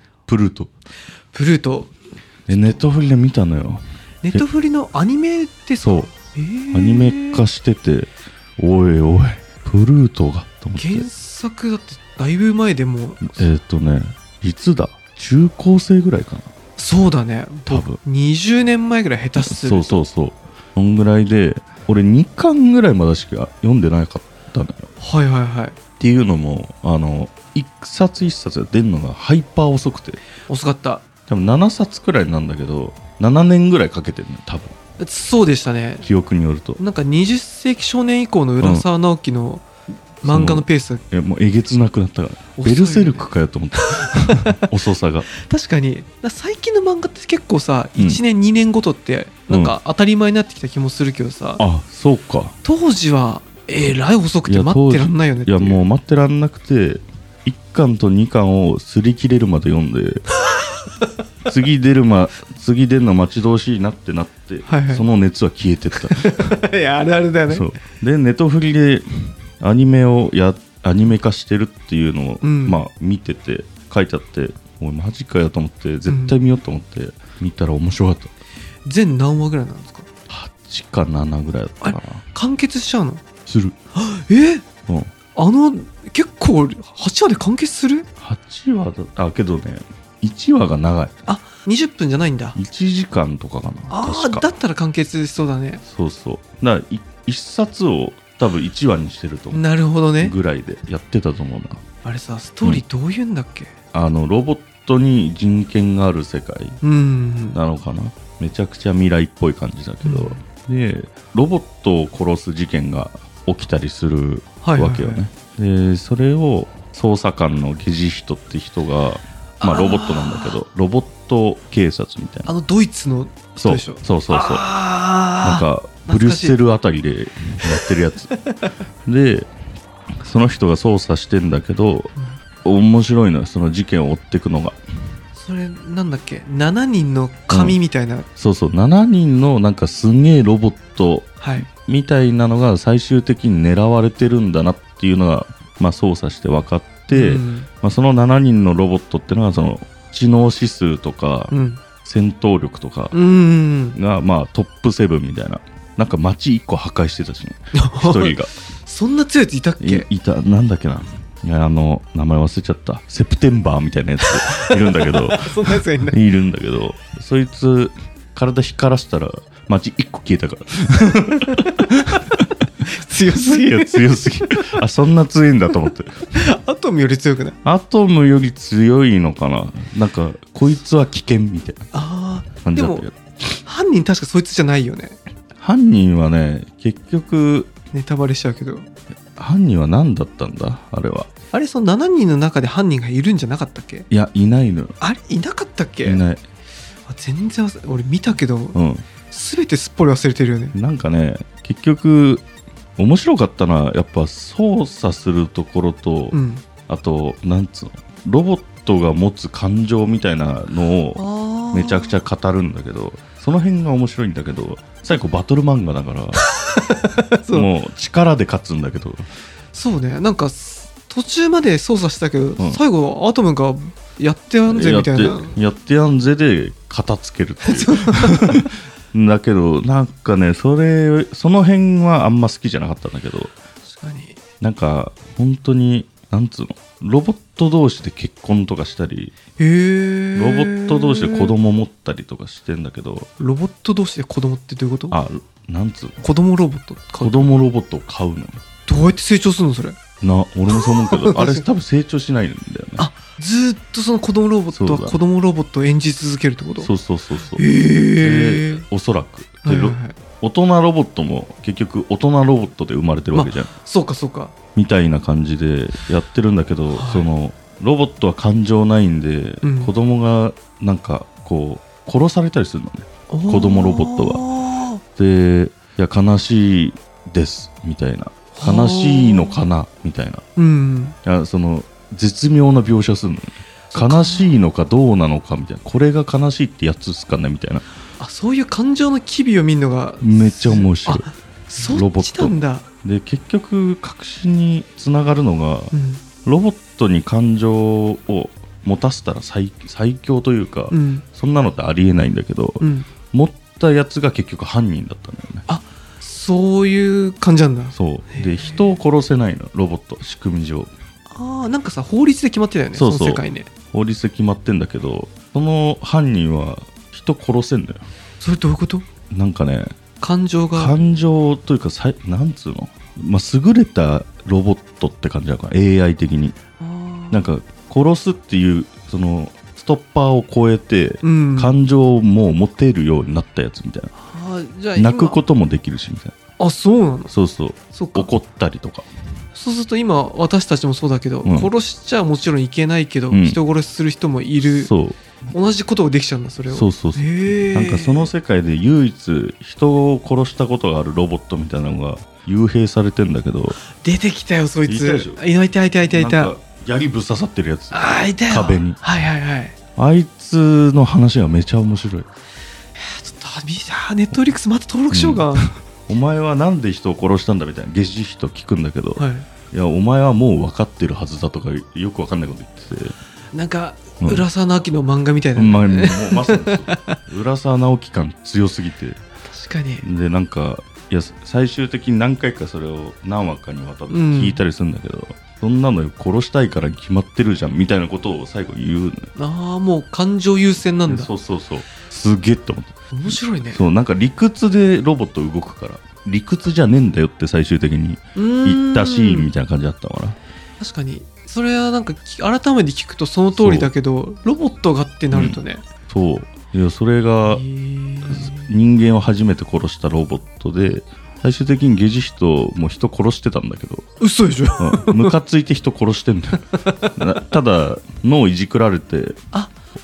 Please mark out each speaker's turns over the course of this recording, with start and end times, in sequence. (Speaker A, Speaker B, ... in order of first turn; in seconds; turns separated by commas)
Speaker A: 0.3-0.7, Speaker B: 1.3-1.9, Speaker A: 2.5-3.8, Speaker B: 2.5-2.8, Speaker B: 4.2-7.4, Speaker A: 5.8-6.1, Speaker A: 6.7-11.1, Speaker B: 10.8-13.5, Speaker A: 13.2-16.5, Speaker B: 16.8-20.0, Speaker A: 17.7-18.0, Speaker A: 19.4-24.9, Speaker B: 25.0-25.8, Speaker A: 26.0-30.2, Speaker B: 30.5-31.0, Speaker A: 31.3-34.8, Speaker B: 35.0-36.1, Speaker A: 36.0-36.8, Speaker B: 36.8-39.7, Speaker A: 38.6-38.9, Speaker B: 40.2-41.0, Speaker A: 40.2-45.3, Speaker B: 42.6-43.3, Speaker B: 43.9-44.6, Speaker B: 45.4-51.6, Speaker A: 51.6-52.5, Speaker B: 52.6-55.8, Speaker A: 54.5-60.2, Speaker A: 61.5-66.6, Speaker B: 64.7-65.1, Speaker B: 66.0-67.7, Speaker A: 67.5-69.1, Speaker A: 69.6-78.3, Speaker B: 72.4-72.8, Speaker B: 76.1-76.4, Speaker B: 78.8-80.1, Speaker A: 80.3-82.2, Speaker B: 81.8-83.2, Speaker A: 83.5-83.8, Speaker B: 84.0-84.6, Speaker A: 84.9-85.1, Speaker B: 85.3-88.1, Speaker A: 88.2-91.1, Speaker B: 91.3-92.6, Speaker A: 92.5-94.5, Speaker B: 93.9-95.8, Speaker A: 95.9-99.6, Speaker B: 99.5-100.3, Speaker A: 100.2-101.8, Speaker B: 102.0-103.7, Speaker A: 103.9-106.8, Speaker B: 106.8-107.6, Speaker A: 107.5-122.5, Speaker B: 110.0-110.4, Speaker B: 114.6-115.2, Speaker B: 119.6-120.6, Speaker B: 122.5-126.6, Speaker A: 123.6-124.6, Speaker A: 125.4-128.3, Speaker B: 127.8-128.6, Speaker A: 129.1-129.5, Speaker A: 130.2-132.1, Speaker A: 132.6-134.8, Speaker B: 135.3-138.3, Speaker A: 137.5-137.8, Speaker A: 138.4-153.2, Speaker B: 141.4-141.7, Speaker B: 147.1-147.7, Speaker B: 151.5-151.8, Speaker B: 153.1-154.0, Speaker A: 153.9-158.5, Speaker B: 157.7-160.1, Speaker A: 159.8-172.4, Speaker B: 164.4-166.2, Speaker B: 172.9-174.7, Speaker A: 173.3-176.3, Speaker B: 176.3-177.6, Speaker A: 177.6-181.8, Speaker B: 181.9-183.1, Speaker A: 182.6-183.2, Speaker B: 183.6-185.2, Speaker A: 185.6-187.7, Speaker B: 187.9-188.9, Speaker A: 189.4-191.3, Speaker B: 191.5-194.1, Speaker A: 194.1-194.9, Speaker B: 195.0-196.2, Speaker A: 196.0-196.4, Speaker B: 197.1-198.8, Speaker A: 198.7-199.1, Speaker B: 199.3-200.8, Speaker A: 200.7-202.4, Speaker A: 203.0-216.4, Speaker B: 206.3-206.6, Speaker B: 211.2-212.2, Speaker B: 216.4-217.7, Speaker A: 217.5-219.3, Speaker B: 219.7-225.6, Speaker A: 224.7-233.5, Speaker B: 227.6-228.7, Speaker B: 233.9-234.4, Speaker A: 234.6-239.3, Speaker B: 239.6-241.5, Speaker A: 240.3-243.3, Speaker B: 243.4-245.2, Speaker A: 245.1-246.2, Speaker B: 246.2-247.5, Speaker A: 247.2-248.6, Speaker B: 248.9-250.0, Speaker A: 250.2-253.1, Speaker B: 250.7-251.7, Speaker B: 253.0-256.9, Speaker A: 254.7-255.2, Speaker A: 256.8-263.7, Speaker B: 257.6-258.8, Speaker B: 259.6-260.2, Speaker B: 263.3-264.6, Speaker A: 264.8-274.4, Speaker B: 266.9-267.3, Speaker B: 269.6-269.9, Speaker B: 273.3-275.0, Speaker A: 275.2-280.4, Speaker B: 278.6-279.6, Speaker B: 280.6-281.2, Speaker A: 281.2-287.8, Speaker B: 283.9-284.5, Speaker B: 288.2-292.9, Speaker A: 290.2-291.3, Speaker A: 291.8-305.7, Speaker B: 295.9-296.2, Speaker B: 300.9-301.2, Speaker B: 302.8-303.1, Speaker B: 305.7-308.8, Speaker A: 307.9-310.9, Speaker B: 311.3-313.7, Speaker A: 312.9-318.0, Speaker B: 318.4-319.1, Speaker A: 319.3-319.9, Speaker B: 320.2-320.9, Speaker A: 320.8-326.6, Speaker B: 326.8-327.5, Speaker A: 327.3-334.1, Speaker B: 331.2-331.7, Speaker B: 334.2-335.4, Speaker A: 334.9-336.4, Speaker B: 336.6-337.3, Speaker A: 337.3-339.1, Speaker B: 337.9-338.3, Speaker B: 339.5-344.9, Speaker A: 341.4-341.7, Speaker A: 343.3-343.6, Speaker A: 344.7-345.2, Speaker B: 345.5-348.3, Speaker A: 346.7-353.8, Speaker B: 353.9-356.5, Speaker A: 354.9-355.4, Speaker A: 356.1-359.0, Speaker B: 357.9-359.8, Speaker A: 360.0-362.3, Speaker B: 363.0-365.7, Speaker A: 365.1-373.1, Speaker B: 369.2-369.5, Speaker B: 373.5-377.2, Speaker A: 375.6-379.2, Speaker B: 379.5-380.1, Speaker A: 380.0-389.3, Speaker B: 384.1-384.6, Speaker B: 389.4-391.3, Speaker A: 391.1-400.4, Speaker B: 393.1-393.8, Speaker B: 398.4-399.5, Speaker B: 400.8-405.8, Speaker A: 403.6-403.9, Speaker A: 405.3-407.6, Speaker B: 407.5-408.7, Speaker A: 408.3-414.1, Speaker B: 414.2-415.3, Speaker A: 414.8-419.4, Speaker B: 416.7-417.2